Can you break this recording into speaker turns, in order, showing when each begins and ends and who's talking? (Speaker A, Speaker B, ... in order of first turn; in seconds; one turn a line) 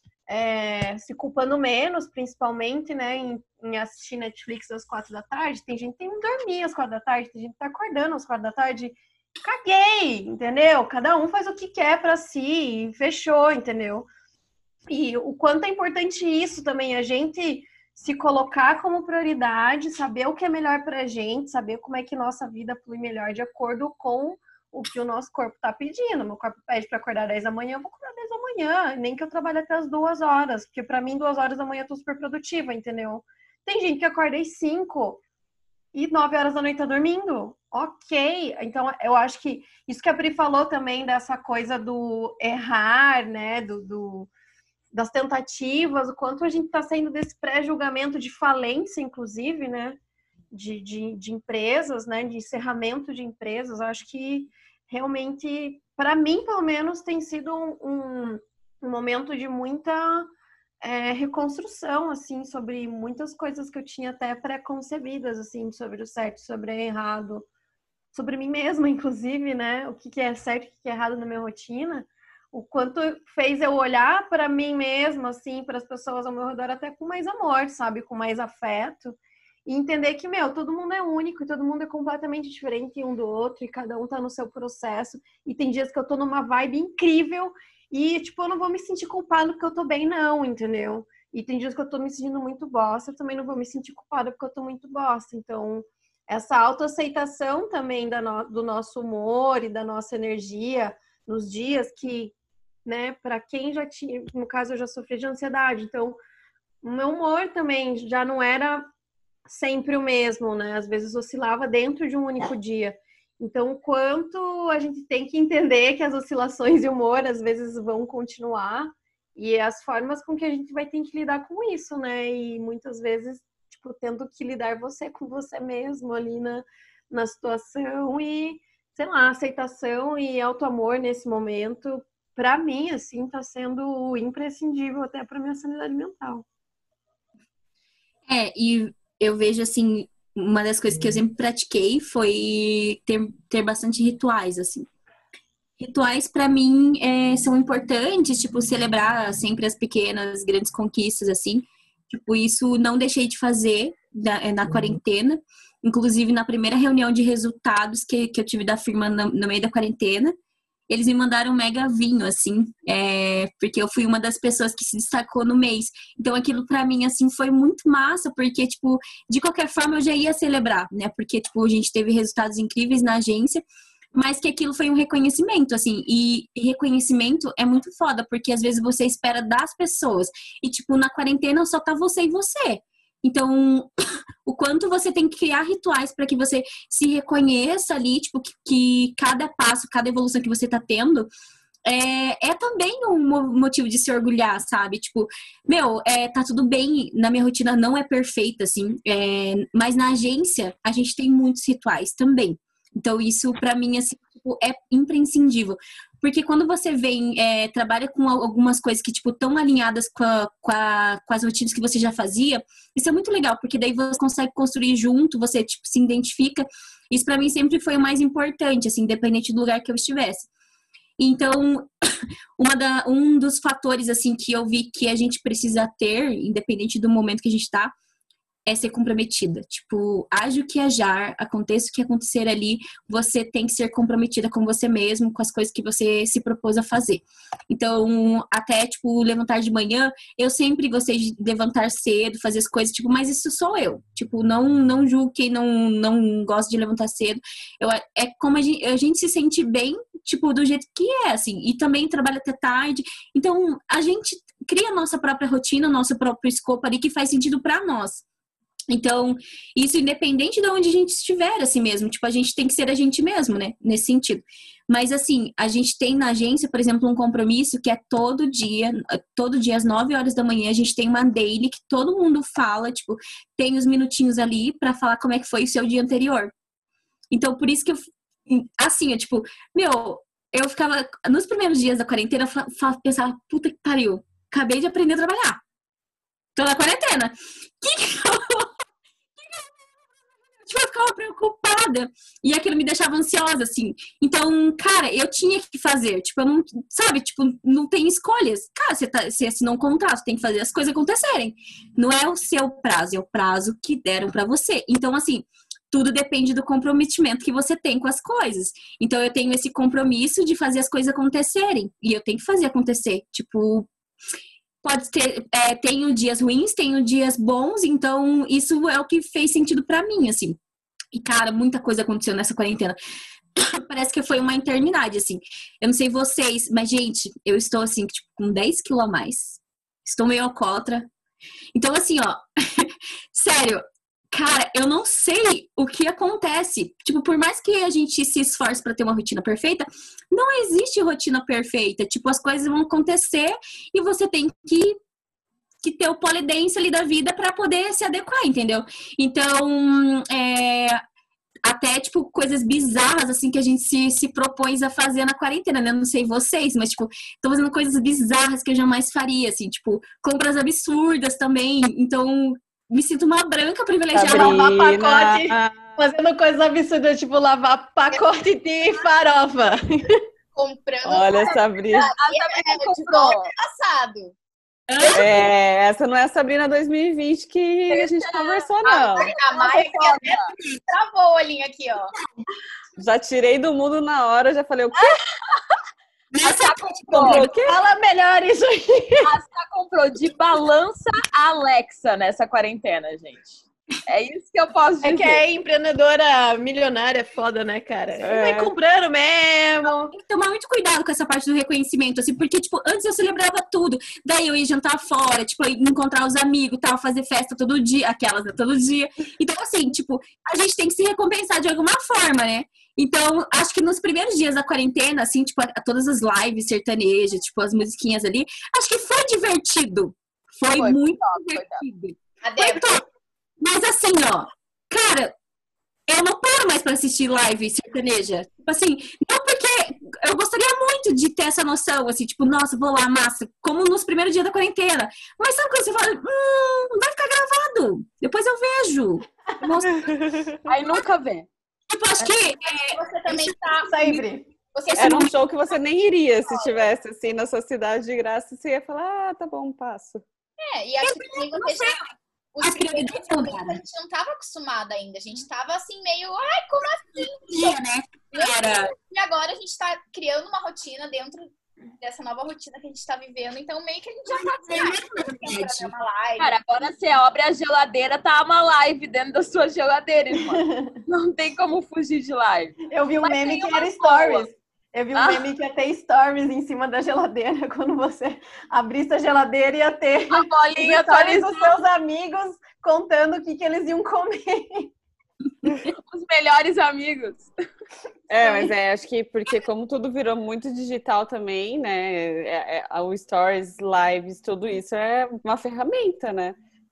Speaker A: 0.3-14.1
Speaker A: 14.9-35.2
Speaker A: 35.9-44.3
Speaker A: 44.9-50.0
Speaker A: 50.5-67.5
Speaker A: 68.1-102.3
Speaker A: 102.9-106.2
Speaker A: 106.8-108.9
Speaker A: 109.5-136.4
Speaker B: 138.3-144.9
Speaker B: 145.8-160.3
Speaker B: 160.9-173.6
Speaker B: 174.1-183.9
Speaker B: 184.4-191.3
Speaker B: 191.8-220.5
Speaker B: 221.2-221.9
Speaker B: 222.6-227.9
Speaker B: 228.7-258.2
Speaker B: 258.9-276.5
Speaker B: 277.3-285.6
Speaker B: 286.6-288.7
Speaker B: 289.4-289.7
Speaker B: 290.6-313.9
Speaker B: 314.8-320.6
Speaker B: 321.1-323.0
Speaker B: 323.6-331.1
Speaker B: 331.7-345.0
Speaker B: 345.8-351.0
Speaker B: 351.6-364.6
Speaker C: 364.1-366.0
Speaker A: 364.3-370.3
Speaker D: 370.5-374.4
Speaker C: 371.0-372.1
Speaker E: 372.0-373.5
Speaker B: 374.9-375.5
Speaker C: 375.1-379.3
Speaker E: 377.9-378.7
Speaker D: 378.9-382.1
Speaker A: 379.5-380.2
Speaker E: 380.0-380.4
Speaker C: 383.0-385.2
Speaker E: 384.9-385.7
Speaker B: 386.4-387.5
Speaker E: 386.4-387.5
Speaker C: 387.1-387.8
Speaker A: 387.5-389.3
Speaker E: 389.2-395.4
Speaker A: 395.0-400.1
Speaker C: 398.2-398.8
Speaker B: 400.1-423.1
Speaker E: 420.8-421.9
Speaker D: 422.4-422.9
Speaker B: 423.6-425.3
Speaker B: 426.1-440.2
Speaker C: 440.0-440.5
Speaker E: 440.6-441.5
Speaker B: 441.9-443.4
Speaker D: 442.6-445.4
Speaker A: 443.8-444.5
Speaker C: 445.0-450.2
Speaker B: 445.0-445.2
Speaker D: 446.4-446.9
Speaker D: 450.6-452.0
Speaker B: 451.0-452.1
Speaker D: 452.6-457.8
Speaker B: 452.6-453.8
Speaker B: 457.4-458.9
Speaker D: 458.3-466.5
Speaker B: 464.3-465.9
Speaker E: 466.4-474.5
Speaker A: 470.4-471.0
Speaker A: 472.9-484.9
Speaker E: 475.1-475.5
Speaker E: 480.3-481.8
Speaker E: 485.7-487.5
Speaker C: 488.3-496.6